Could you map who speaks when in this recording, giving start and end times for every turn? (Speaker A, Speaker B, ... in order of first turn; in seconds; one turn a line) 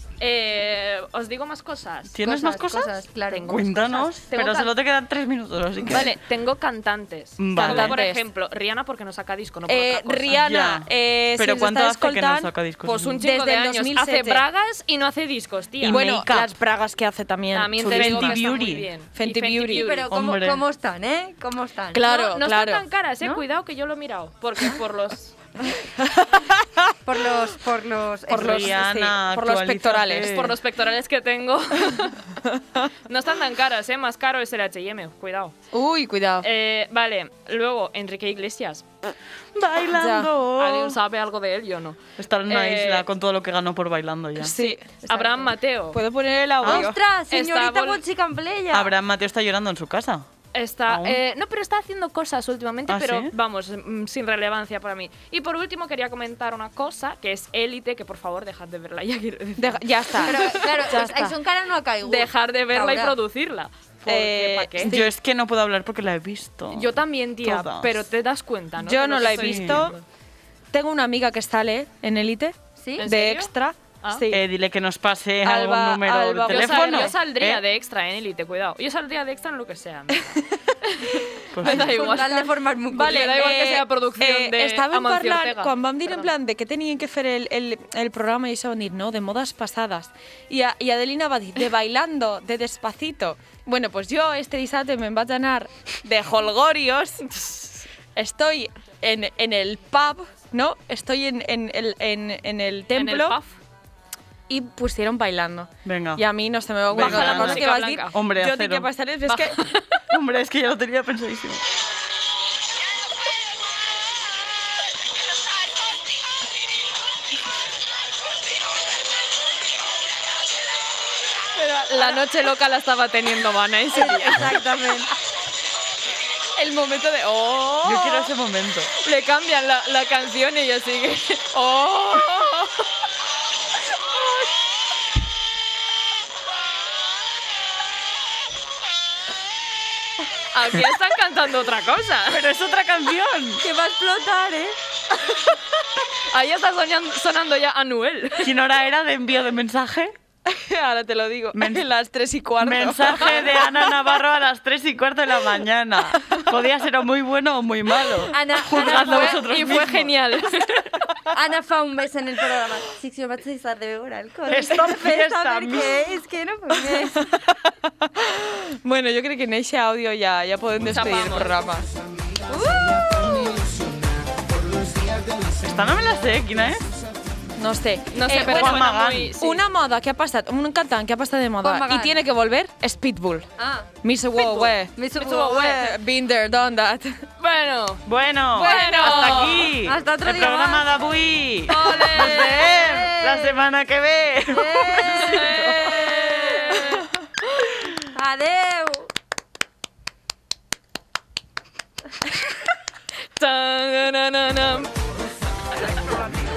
Speaker A: 0.2-2.2
Speaker B: 2.1-6.2
Speaker C: 2.2-4.1
Speaker A: 3.3-4.7
Speaker A: 5.9-10.4
Speaker B: 7.4-8.0
Speaker D: 7.5-8.2
Speaker D: 9.7-12.5
Speaker B: 10.3-13.2
Speaker A: 12.8-16.1
Speaker D: 13.2-14.4
Speaker B: 15.8-16.5
Speaker D: 15.8-18.4
Speaker A: 17.5-20.2
Speaker B: 17.8-18.9
Speaker D: 19.1-20.0
Speaker C: 19.7-22.1
Speaker B: 20.1-20.6
Speaker D: 21.9-22.8
Speaker A: 22.0-25.4
Speaker D: 25.8-26.9
Speaker C: 27.0-28.9
Speaker B: 28.3-30.6
Speaker D: 28.3-30.4
Speaker A: 30.3-32.2
Speaker D: 32.4-32.8
Speaker A: 33.1-35.5
Speaker D: 35.7-36.5
Speaker A: 36.4-38.8
Speaker B: 39.5-41.0
Speaker D: 39.9-40.3
Speaker A: 40.6-43.1
Speaker B: 42.2-44.5
Speaker D: 44.4-44.8
Speaker A: 44.6-46.0
Speaker C: 45.0-45.5
Speaker D: 45.9-47.0
Speaker B: 46.6-46.9
Speaker C: 46.6-48.9
Speaker A: 47.3-48.0
Speaker B: 48.7-50.3
Speaker A: 50.5-60.9
Speaker B: 50.9-51.2
Speaker B: 52.9-53.3
Speaker D: 59.6-61.3
Speaker C: 60.2-63.1
Speaker A: 62.0-65.0
Speaker D: 64.0-65.1
Speaker B: 64.8-68.0
Speaker A: 66.7-70.0
Speaker D: 68.8-69.9
Speaker B: 69.3-69.9
Speaker D: 70.7-74.4
Speaker C: 72.8-73.1
Speaker A: 73.0-73.5
Speaker B: 74.3-77.6
Speaker D: 75.4-77.1
Speaker A: 76.4-86.3
Speaker D: 81.2-82.3
Speaker B: 81.5-82.1
Speaker C: 81.6-83.6
Speaker D: 82.9-97.3
Speaker D: 98.1-103.4
Speaker A: 102.9-103.6
Speaker D: 104.5-109.6
Speaker B: 105.8-106.2
Speaker B: 106.9-108.9
Speaker A: 106.9-108.2
Speaker A: 109.2-110.0
Speaker B: 110.1-111.6
Speaker A: 121.6-124.6
Speaker C: 123.9-125.1
Speaker D: 126.6-128.3
Speaker B: 127.8-128.9
Speaker A: 129.0-132.8
Speaker A: 140.5-142.4
Speaker B: 142.3-143.6
Speaker C: 143.6-144.8
Speaker A: 146.3-148.5
Speaker B: 148.4-150.1
Speaker D: 150.5-153.7
Speaker B: 151.5-151.8
Speaker B: 152.6-160.1
Speaker C: 158.3-159.8
Speaker A: 158.7-160.9
Speaker C: 161.3-167.4
Speaker B: 164.5-166.0
Speaker D: 166.7-171.9
Speaker A: 170.8-171.6
Speaker C: 172.5-173.7
Speaker B: 175.6-176.9
Speaker D: 177.6-183.5
Speaker A: 178.1-179.6
Speaker B: 178.3-179.4
Speaker C: 181.6-182.2
Speaker C: 183.6-183.9
Speaker D: 184.0-184.9
Speaker A: 184.4-185.9
Speaker C: 184.9-185.9
Speaker D: 185.5-187.2
Speaker A: 187.4-189.7
Speaker B: 188.1-195.7
Speaker D: 188.5-189.5
Speaker C: 188.9-191.0
Speaker A: 191.7-192.7
Speaker C: 191.9-193.6
Speaker C: 194.5-197.0
Speaker A: 195.0-197.1
Speaker C: 198.1-199.1
Speaker A: 203.4-204.9